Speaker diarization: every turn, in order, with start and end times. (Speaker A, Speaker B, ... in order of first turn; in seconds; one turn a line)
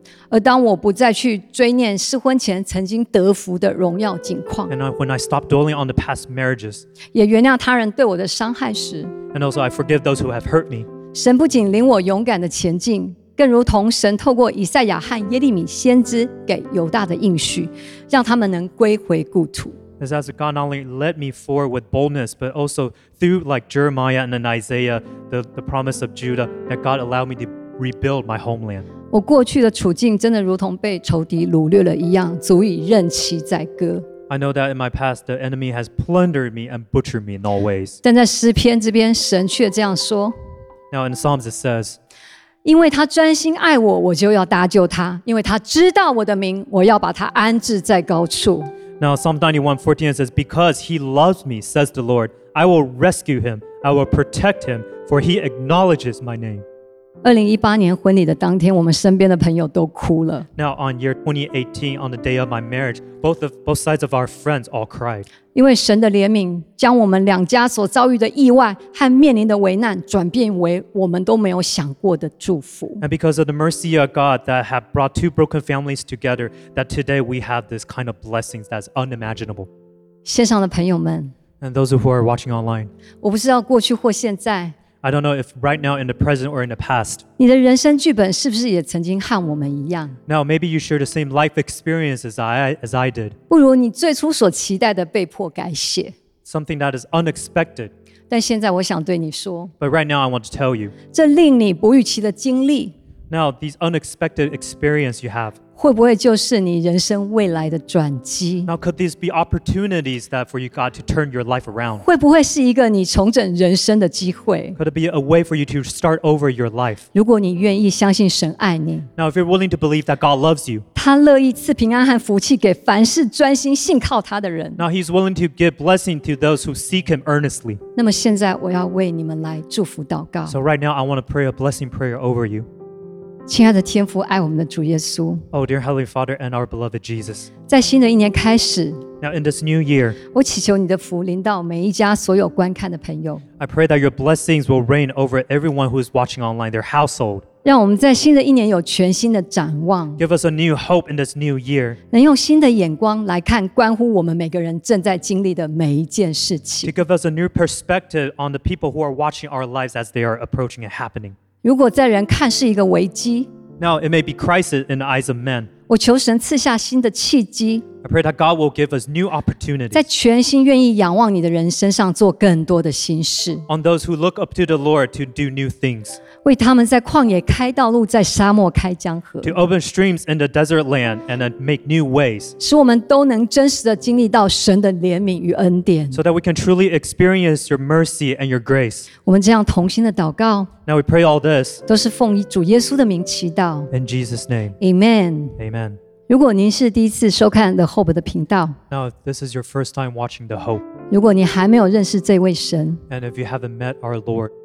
Speaker A: 0.3-4.7
Speaker B: 4.7-6.8
Speaker A: 7.1-9.1
Speaker B: 9.3-10.9
Speaker A: 11.1-19.8
Speaker B: 20.0-28.9
Speaker A: 29.1-34.1
Speaker B: 34.3-38.0
Speaker A: 38.0-40.3
Speaker B: 40.9-42.0
Speaker A: 42.6-48.7
Speaker B: 49.0-56.6
Speaker A: 57.2-60.5
Speaker B: 60.6-65.3
Speaker A: 65.5-73.0
Speaker B: 73.0-79.7
Speaker A: 80.2-81.3
Speaker B: 81.6-82.9
Speaker A: 83.2-84.8
Speaker B: 85.0-87.2
Speaker A: 87.4-90.2
Speaker B: 90.3-93.4
Speaker A: 93.5-96.1
Speaker B: 96.5-97.9
Speaker A: 98.3-99.7
Speaker B: 99.8-100.9
Speaker A: 101.1-102.9
Speaker B: 103.3-105.6
Speaker A: 105.8-108.7
Speaker B: 108.7-112.0
Speaker A: 112.0-114.8
Speaker B: 114.8-117.0
Speaker A: 117.1-119.1
Speaker B: 119.2-120.8
Speaker A: 120.9-124.8
Speaker B: 124.8-127.8
Speaker A: 128.0-130.6
Speaker B: 130.5-132.7
Speaker A: 133.5-135.4
Speaker B: 135.5-137.5
Speaker A: 137.7-139.0
Speaker B: 139.2-140.2
Speaker A: 140.3-143.4
Speaker B: 143.6-147.4
Speaker A: 147.6-150.2
Speaker B: 150.2-152.0
Speaker A: 152.1-156.9
Speaker B: 156.8-161.4
Speaker A: 161.6-163.5
Speaker B: 163.8-165.7
Speaker A: 165.9-167.8
Speaker B: 168.0-170.0
Speaker A: 169.9-173.7
Speaker B: 173.7-176.2
Speaker A: 176.4-179.6
Speaker B: 179.4-182.6
Speaker A: 182.6-186.2
Speaker B: 186.1-189.1
Speaker A: 189.2-190.7
Speaker B: 190.8-191.8
Speaker A: 191.9-193.9
Speaker B: 193.9-194.8
Speaker A: 194.8-195.6
Speaker B: 195.6-196.0
Speaker A: 196.3-198.8
Speaker B: 198.9-200.9
Speaker A: 201.1-203.0
Speaker B: 203.1-204.5